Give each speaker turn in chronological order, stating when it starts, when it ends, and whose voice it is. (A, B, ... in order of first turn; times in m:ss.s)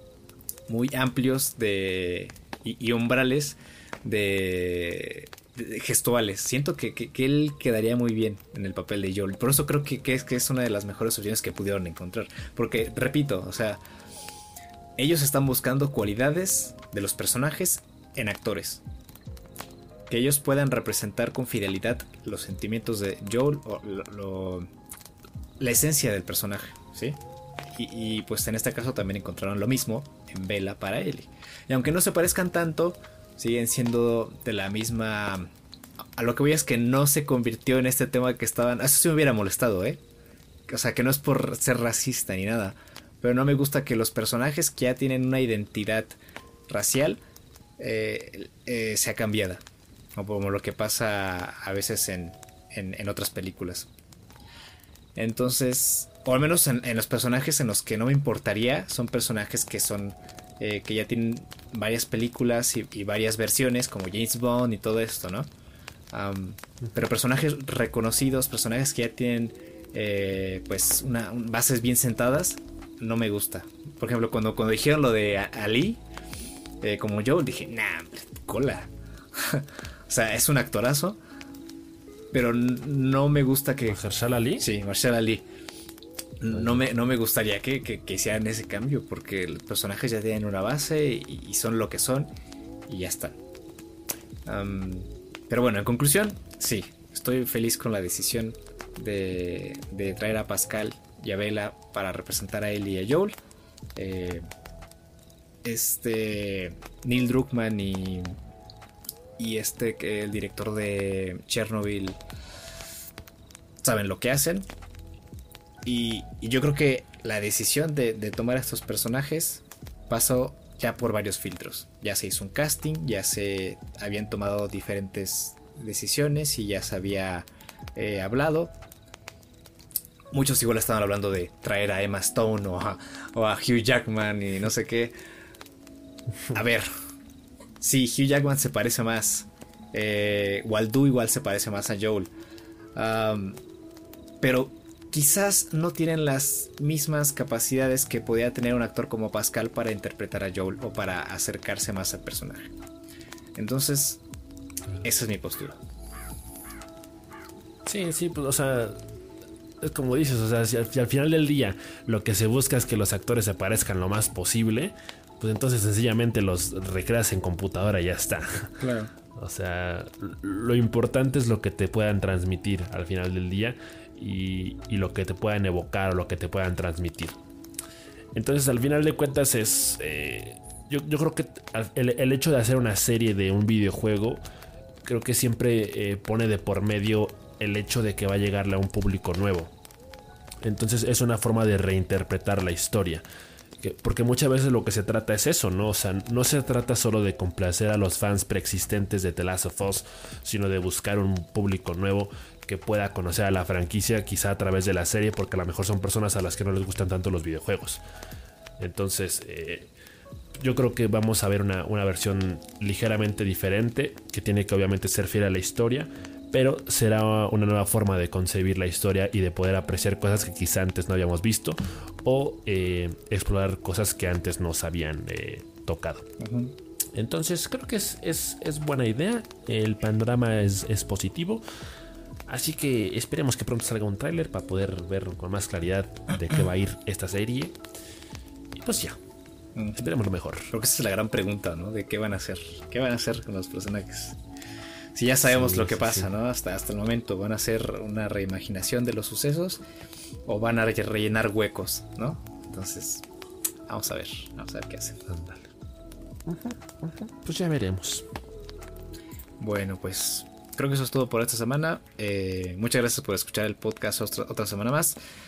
0:00.7-0:13.8 A
0:15.0-0:18.8 A
0:20.1-0:24.7 A
0:25.6-0:27.2 A
0:27.8-0:35.5 A
0:36.2-0:40.0 A
0:40.7-0:46.2 A
0:46.7-0:47.2 A
0:47.8-0:49.6 A
0:50.2-0:53.9 A
0:55.2-1:05.5 A
1:06.1-1:16.0 A
1:16.8-1:21.2 A
1:22.3-1:24.0 A
1:23.9-1:24.6 B
1:24.6-1:25.4 A
1:26.4-1:32.3 A
1:32.9-1:33.4 A
1:34.4-1:43.4 A
1:44.0-1:44.4 A
1:45.6-1:48.4 A
1:49.4-1:52.2 A
1:53.8-1:54.6 A
1:55.8-2:08.7 A
2:10.3-2:15.1 A
2:16.5-2:16.9 A
2:17.8-2:22.3 A
2:23.0-2:23.6 A
2:24.4-2:32.7 A
2:33.6-2:34.2 A
2:35.0-2:35.8 A
2:37.8-2:39.0 B
2:39.8-2:48.8 B
2:48.8-2:49.1 A
2:49.3-2:57.4 B
2:58.3-3:04.4 B
3:05.0-3:09.7 B
3:10.6-3:13.2 B
3:13.8-3:28.0 B
3:28.8-3:29.9 B
3:30.6-3:46.3 B
3:46.4-3:46.7 A
3:47.1-3:51.6 B
3:52.5-3:57.8 B
3:58.7-3:59.2 B
3:59.8-4:00.0 A
3:59.9-4:00.7 B
4:00.7-4:04.4 A
4:05.1-4:09.8 A
4:05.4-4:06.3 B
4:10.4-4:13.2 A
4:13.9-4:15.2 A
4:15.3-4:15.7 B
4:16.4-4:18.2 B
4:19.6-4:25.2 A